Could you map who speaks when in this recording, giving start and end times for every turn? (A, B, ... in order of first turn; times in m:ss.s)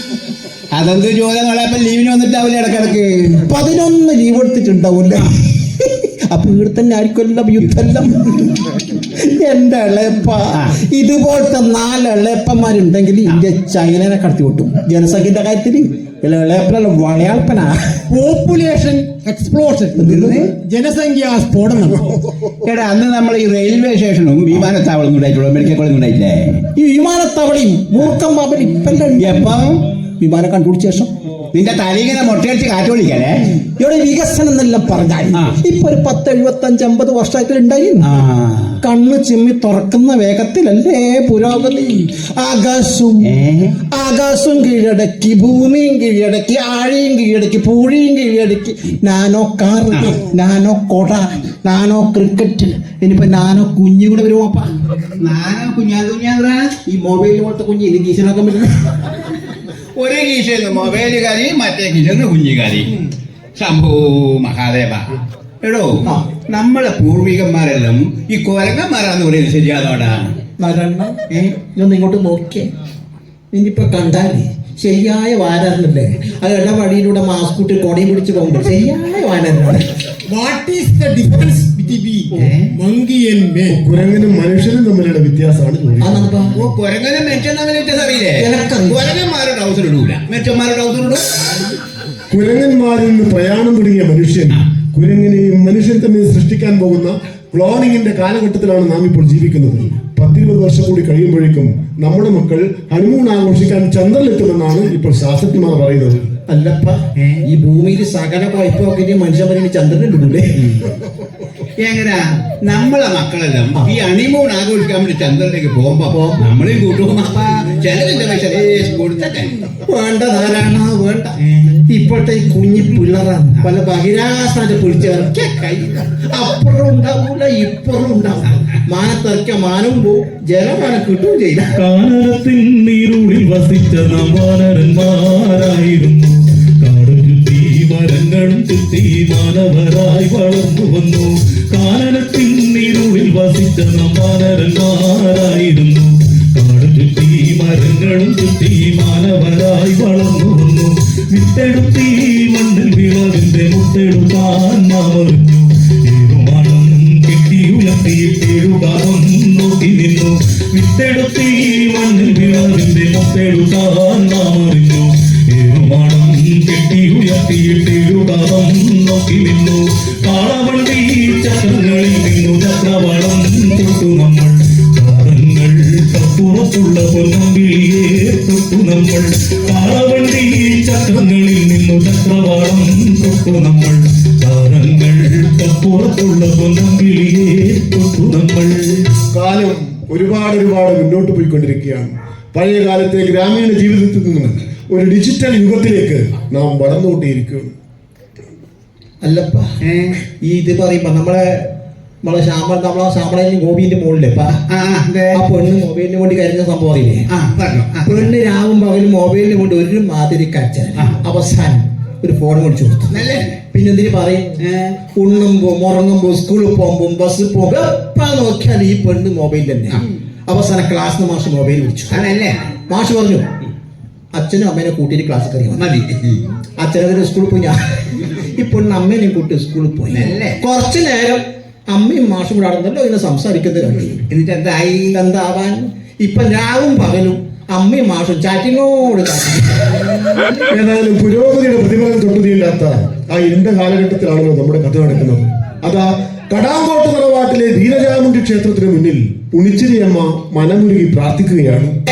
0:00.7-0:03.4 A
0:03.4-0:18.1 B
0:18.1-0:20.0 C
0:19.9-0:20.5 B
0:20.0-0:20.6 A
0:20.6-0:22.2 C
0:22.5-0:26.6 A
0:26.7-0:29.6 B
0:29.2-0:29.8 A
0:30.2-0:31.1 B
0:31.5-0:33.5 A
0:33.8-0:38.1 B
0:38.0-0:38.8 A
0:38.8-0:43.3 B
0:43.2-0:43.8 A
0:43.9-0:55.1 B
0:55.2-0:56.7 A
0:56.8-0:59.3 B
1:00.0-1:10.4 A
1:10.6-1:12.7 B
1:11.3-1:11.6 A
1:13.5-1:19.9 B
1:20.2-1:22.2 C
1:22.3-1:22.8 A
1:22.8-1:23.8 C
1:23.7-1:26.4 D
1:26.0-1:26.5 B
1:26.6-1:31.7 A
1:28.4-1:29.0 B
1:32.3-1:46.3 D
1:46.5-1:50.8 B
1:47.2-1:47.4 A
1:51.8-1:59.6 A
1:56.1-1:56.4 B
1:59.8-2:11.7 B
2:01.4-2:01.8 A
2:11.7-3:09.0 E
3:09.3-3:17.7 D
3:19.2-3:19.8 B
3:19.8-3:20.2 A
3:20.3-3:21.7 B
3:22.2-3:24.6 B
3:24.7-3:25.4 A
3:25.3-3:27.2 B
3:27.3-3:28.3 A
3:28.0-3:34.6 B
3:33.1-3:33.6 A
3:34.6-3:35.0 A
3:35.1-3:42.2 B
3:42.1-3:42.7 A
3:42.9-3:43.5 B
3:44.3-3:45.8 B
3:45.8-3:46.5 A
3:46.8-3:54.2 B
3:50.1-3:50.6 A
3:54.3-3:55.2 A
3:55.1-4:00.3 B
4:00.7-4:12.0 D